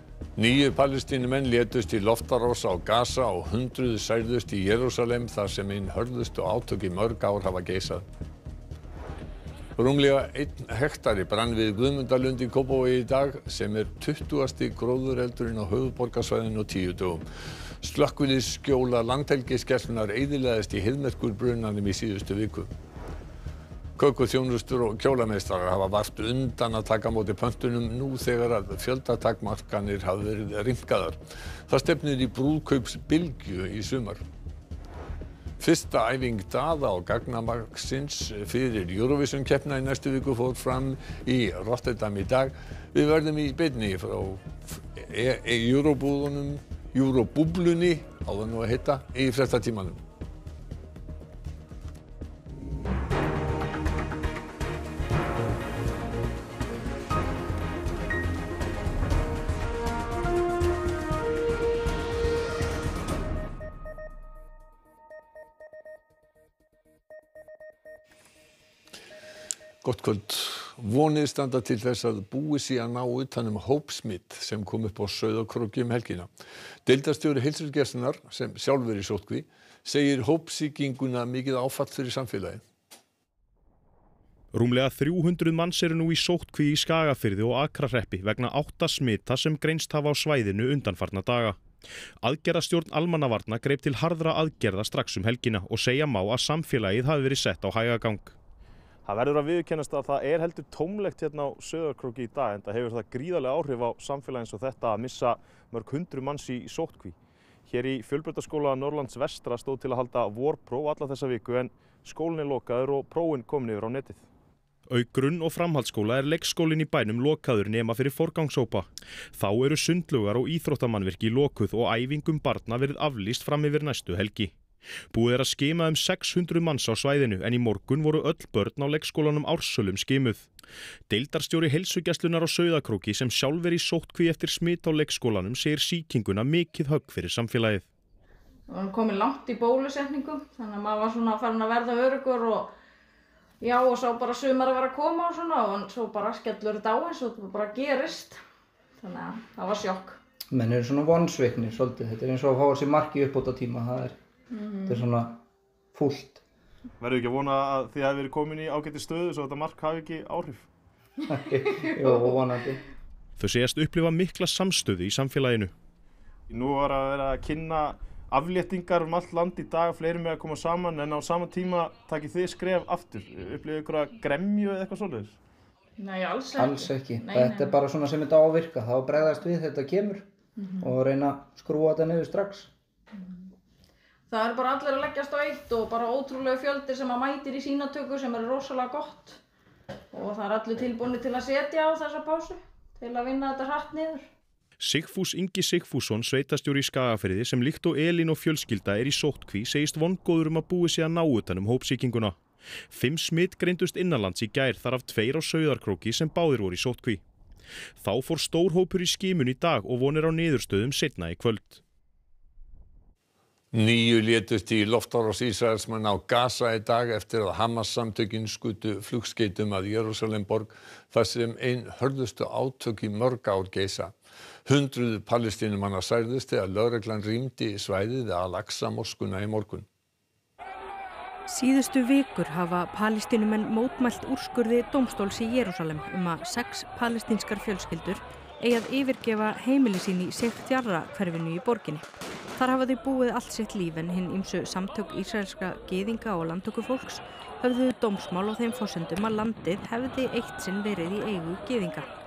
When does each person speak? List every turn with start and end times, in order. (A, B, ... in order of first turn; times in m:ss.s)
0:00.4-0:08.0 A
0:09.8-0:17.2 A
0:17.8-0:22.7 A
0:24.0-0:34.2 A
0:35.6-0:50.0 A
1:09.8-1:16.3 A
1:16.8-1:22.6 A
1:24.5-1:31.6 B
1:32.2-1:38.4 B
1:39.0-1:47.1 C
1:46.7-1:47.0 D
1:47.7-1:54.2 C
1:49.2-1:49.4 D
1:54.9-2:04.5 B
2:05.1-2:10.5 B
2:11.1-2:17.9 B
2:18.7-2:22.7 D
2:23.6-2:28.4 D
2:29.0-2:30.2 D
2:30.5-2:34.2 E
2:34.6-2:34.9 D
2:34.9-2:35.4 E
2:35.9-2:36.4 E
2:37.0-2:40.7 C
2:41.3-2:42.8 E
2:43.4-2:45.7 B
2:46.5-2:55.4 C
2:56.0-2:57.8 D
2:56.6-3:00.3 E
3:00.8-3:02.7 E
3:04.3-3:09.3 D
3:10.1-3:14.2 D
3:14.8-3:22.4 B
3:22.9-3:27.2 B
3:28.0-3:31.8 B
3:33.7-3:49.9 A
3:51.5-4:12.1 F